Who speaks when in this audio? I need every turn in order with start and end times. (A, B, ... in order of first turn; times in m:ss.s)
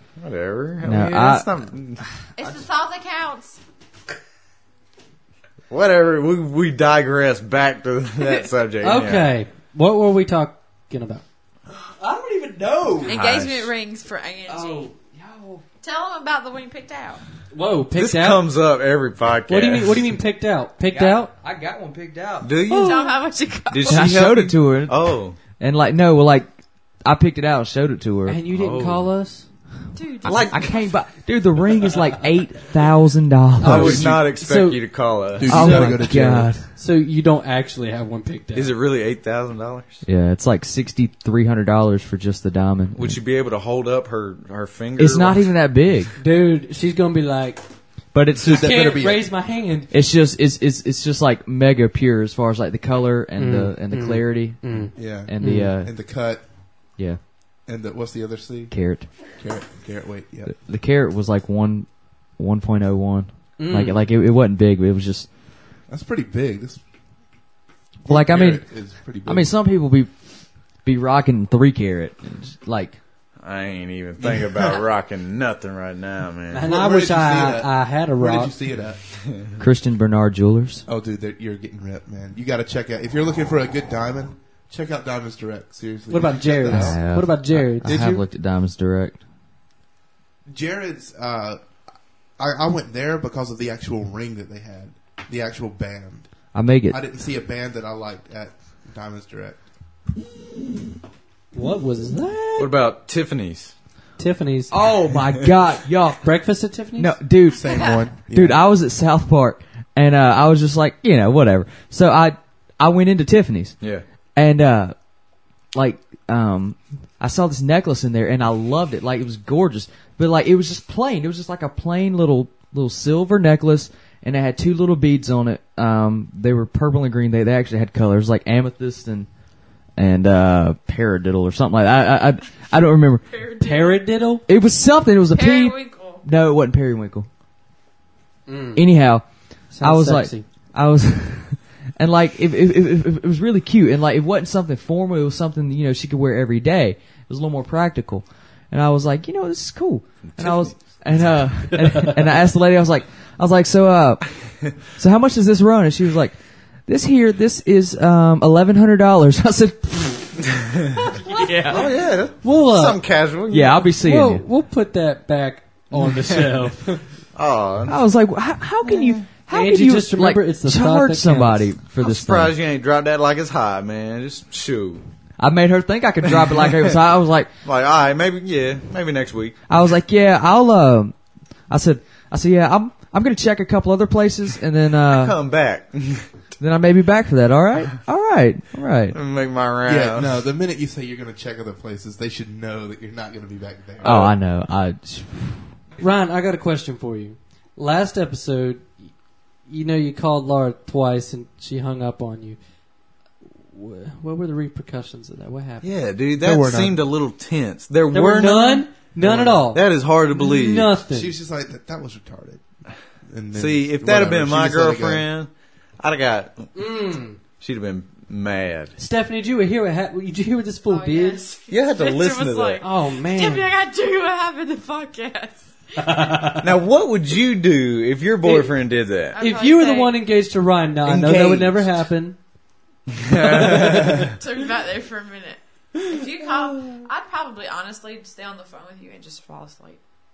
0:00.2-0:02.0 A
0:00.8-0:02.6 B
0:02.4-0:03.6 C
0:05.7-0:09.3 A
0:08.2-0:08.4 C
0:08.8-0:11.2 D
0:12.0-0:13.1 B
0:13.0-0:14.9 C
0:13.0-0:13.7 A
0:14.5-0:15.6 B
0:15.8-0:17.2 C
0:17.5-0:18.4 D
0:17.9-0:20.1 A
0:19.5-0:21.3 D
0:20.8-0:22.5 B
0:22.4-0:23.1 A
0:22.7-0:24.2 C
0:22.7-0:23.2 D
0:23.7-0:25.4 A
0:23.9-0:26.5 B
0:27.0-0:28.4 B
0:28.3-0:29.5 D
0:28.5-0:29.1 A
0:29.9-0:30.7 C
0:30.2-0:30.8 A
0:30.3-0:34.1 B
0:33.6-0:34.8 D
0:33.6-0:35.8 A
0:33.8-0:34.2 E
0:35.4-0:36.5 E
0:35.5-0:36.0 D
0:35.5-0:36.6 B
0:36.7-0:38.7 D
0:38.5-0:40.0 A
0:40.1-0:43.2 B
0:42.9-0:45.5 A
0:45.0-0:46.1 B
0:46.2-0:47.6 D
0:48.1-0:49.0 B
0:48.5-0:49.3 E
0:48.5-0:50.0 D
0:49.9-0:55.9 B
0:53.4-0:55.7 D
0:54.9-0:56.4 E
0:57.7-0:58.7 E
0:58.7-0:59.1 B
0:59.3-1:00.5 E
1:00.5-1:05.3 B
1:03.6-1:04.1 D
1:05.9-1:06.8 E
1:08.0-1:09.5 E
1:08.1-1:08.7 B
1:09.2-1:10.1 B
1:10.8-1:13.0 B
1:13.4-1:16.7 A
1:14.2-1:14.8 E
1:16.5-1:18.5 D
1:16.6-1:19.0 E
1:19.6-1:20.8 B
1:20.9-1:27.0 E
1:26.1-1:28.2 D
1:26.7-1:29.2 B
1:30.5-1:31.6 E
1:32.4-1:36.3 E
1:36.5-1:37.0 B
1:36.9-1:39.6 E
1:41.5-1:42.7 D
1:42.6-1:43.7 A
1:44.2-1:44.8 D
1:44.7-1:46.2 B
1:46.2-1:47.1 D
1:47.0-1:47.7 B
1:47.5-1:48.6 E
1:47.6-1:48.1 C
1:48.3-1:53.8 B
1:53.8-1:54.1 A
1:54.4-1:55.0 B
1:55.7-2:09.3 B
2:10.0-2:13.3 B
2:13.3-2:14.0 C
2:13.6-2:14.5 D
2:14.5-2:17.3 B
2:15.3-2:16.2 C
2:18.5-2:18.9 D
2:18.8-2:40.5 B
2:19.7-2:20.5 D
2:30.2-2:30.9 A
2:41.3-2:41.8 B
2:41.7-2:43.9 A
2:42.4-2:43.0 D
2:43.5-2:44.4 B
2:44.0-2:47.0 D
2:45.9-2:46.6 A
2:47.3-2:48.0 A
2:47.9-2:52.6 B
2:48.8-2:49.3 A
2:49.5-2:51.7 D
2:52.0-2:55.0 A
2:55.4-2:57.5 B
2:56.2-2:57.0 A
2:57.6-2:59.6 A
2:59.7-3:01.2 B
3:01.7-3:05.4 B
3:05.1-3:06.3 A
3:06.6-3:09.2 B
3:09.1-3:10.4 A
3:09.9-3:14.2 E
3:14.0-3:15.7 B
3:14.0-3:14.3 A
3:16.0-3:19.1 D
3:19.7-3:22.6 D
3:23.7-3:25.9 D
3:25.8-3:31.0 A
3:26.4-3:27.0 E
3:28.1-3:31.4 D
3:31.1-3:32.6 E
3:33.3-3:35.3 E
3:33.5-3:36.6 A
3:36.8-3:37.4 D
3:37.6-3:38.9 A
3:39.0-3:41.5 D
3:40.9-3:46.2 C
3:41.7-3:42.8 A
3:42.8-3:43.7 D
3:46.0-3:46.6 D
3:46.6-3:49.4 A
3:48.4-3:48.7 D
3:49.3-3:50.3 C
3:49.4-3:52.4 D
3:51.0-3:51.9 A
3:53.2-3:54.4 A
3:54.4-4:00.0 C